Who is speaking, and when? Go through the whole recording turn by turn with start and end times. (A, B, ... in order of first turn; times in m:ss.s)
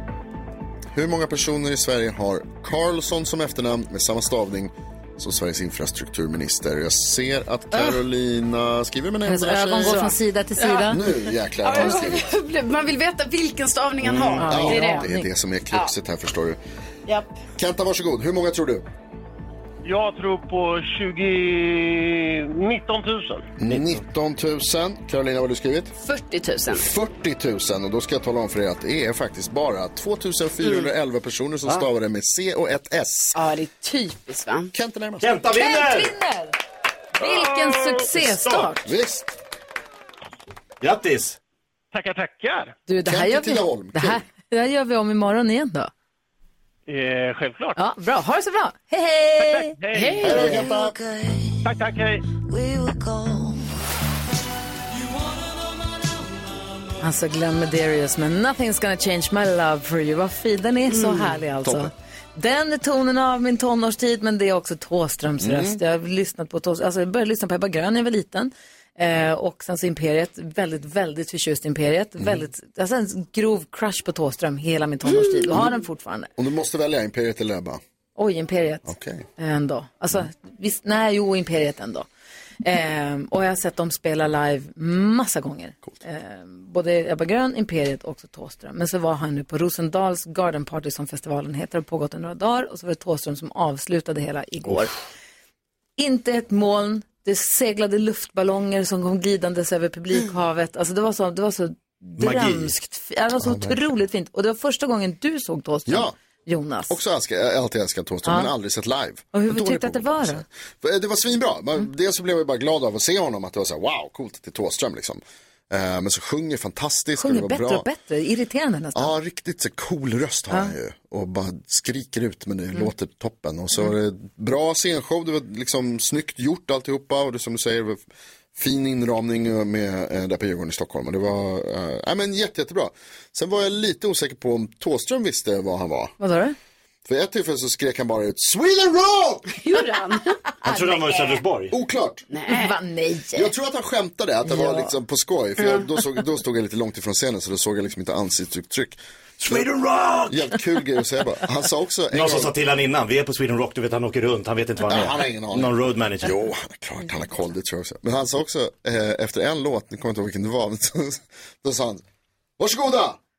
0:00.9-0:10.1 A
0:09.2-0:11.3 B
0:09.8-0:11.0 C
0:10.9-0:12.3 A
0:11.6-0:15.0 C
0:14.0-0:14.4 D
0:14.4-0:15.3 B
0:14.4-0:16.6 A
0:17.6-0:18.8 A
0:19.8-0:23.5 E
0:23.6-0:25.9 A
0:23.6-0:24.0 D
0:26.0-0:26.8 C
0:26.7-0:33.4 A
0:30.6-0:30.9 C
0:33.3-0:34.7 C
0:34.7-0:35.3 A
0:35.2-0:36.1 D
0:35.5-0:36.6 B
0:37.2-0:38.9 B
0:37.2-0:38.1 E
0:38.2-0:38.7 D
0:38.8-0:39.3 A
0:40.8-0:41.4 D
0:41.9-0:42.8 E
0:42.9-0:45.9 B
0:43.0-0:44.2 A
0:46.9-0:47.8 E
0:47.8-0:50.6 B
0:49.4-0:50.9 E
0:50.2-0:50.9 A
0:50.5-0:51.6 F
0:51.6-0:52.2 E
0:52.5-0:53.6 F
0:57.0-1:16.3 B
1:00.9-1:01.4 C
1:01.6-1:01.9 A
1:05.4-1:05.8 A
1:16.4-1:17.8 A
1:18.2-1:22.1 B
1:18.8-1:19.2 A
1:22.6-1:34.9 B
1:36.0-1:46.9 B
1:42.2-1:42.7 D
1:43.4-1:43.9 A
1:45.9-1:46.1 A
1:46.9-1:57.8 A
1:48.2-1:48.5 B
1:49.3-1:50.4 B
1:57.2-1:59.1 B
1:58.9-2:16.2 A
2:16.2-2:16.6 B
2:17.0-2:19.5 A
2:19.5-2:20.4 C
2:20.6-2:21.4 B
2:20.6-2:21.7 D
2:21.7-2:22.2 A
2:22.3-2:22.8 C
2:22.5-2:23.5 B
2:23.3-2:29.0 A
2:24.4-2:24.9 B
2:29.4-2:30.5 D
2:30.3-2:32.5 A
2:32.1-2:36.4 D
2:34.8-2:42.0 A
2:42.6-2:43.2 A